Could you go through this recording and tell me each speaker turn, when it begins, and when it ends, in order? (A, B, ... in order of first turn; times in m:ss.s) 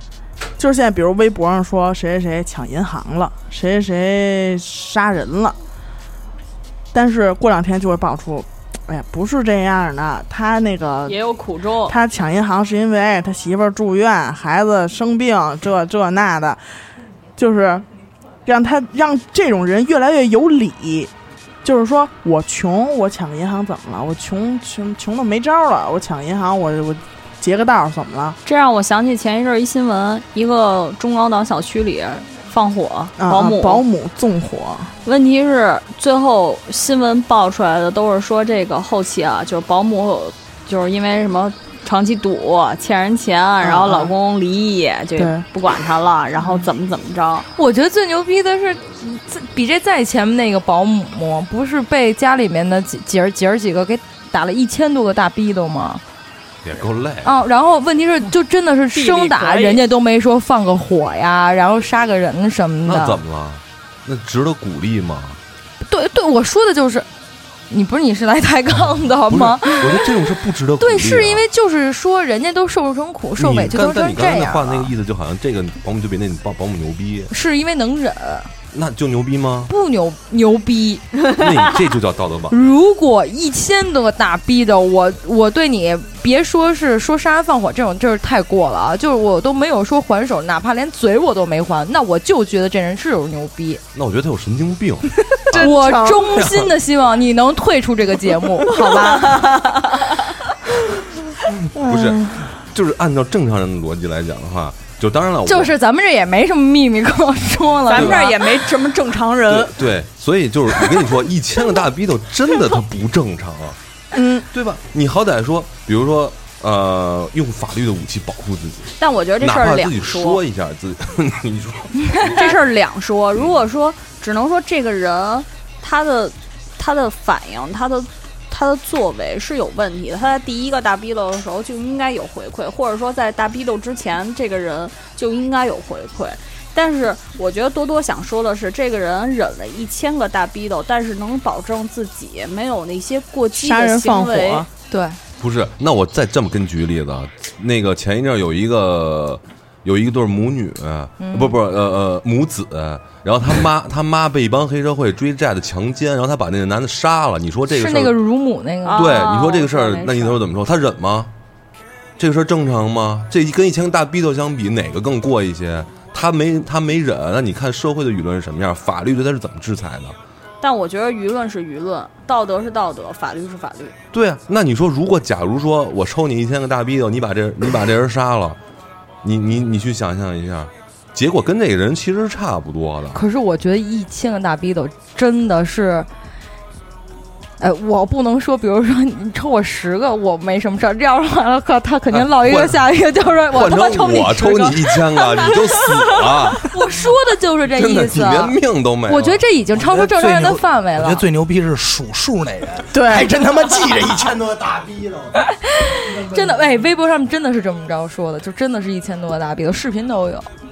0:00.6-0:05.6 A
0:06.9-0:11.2 A
0:11.0-0:11.9 B
0:11.9-0:16.6 A
0:17.4-0:17.8 A
0:18.4-0:21.1 A
0:21.6-0:28.4 A
0:28.4-0:33.8 B
0:33.2-0:34.9 A
0:35.0-0:47.4 B
0:43.6-0:44.1 A
0:45.2-0:45.4 A
0:47.6-0:56.0 C
0:56.6-0:57.3 D
0:57.2-1:03.2 C
0:58.9-0:59.8 B
1:02.8-1:05.4 D
1:05.8-1:07.1 C
1:07.7-1:10.1 C
1:09.3-1:11.4 D
1:10.8-1:14.9 C
1:13.4-1:17.3 D
1:17.3-1:18.5 C
1:18.7-1:19.7 D
1:19.7-1:21.1 C
1:21.3-1:22.6 D
1:22.5-1:33.8 C
1:33.9-1:36.7 D
1:35.5-1:39.4 C
1:35.6-1:36.3 A
1:39.2-1:40.0 B
1:41.6-1:45.7 D
1:41.7-1:42.5 A
1:45.5-1:48.4 C
1:47.9-1:49.7 B
1:47.9-1:48.7 D
1:49.5-1:53.8 D
1:54.1-1:54.4 A
1:54.5-2:02.6 D
1:59.0-2:00.4 B
2:02.2-2:24.7 B
2:23.6-2:24.7 A
2:24.9-2:25.2 C
2:25.4-2:38.2 D
2:31.2-2:31.6 C
2:37.7-2:39.2 C
2:38.8-2:40.4 B
2:38.9-2:41.3 D
2:42.2-2:50.2 D
2:50.6-2:54.0 B
2:54.1-2:58.6 D
2:59.2-3:03.2 D
3:03.1-3:06.1 C
3:07.6-3:15.0 C
3:12.1-3:12.8 D
3:13.5-3:16.7 D
3:16.6-3:21.2 C
3:17.7-3:19.4 D
3:19.8-3:25.4 E
3:22.9-3:23.3 A
3:25.6-3:30.5 C
3:26.1-3:26.5 E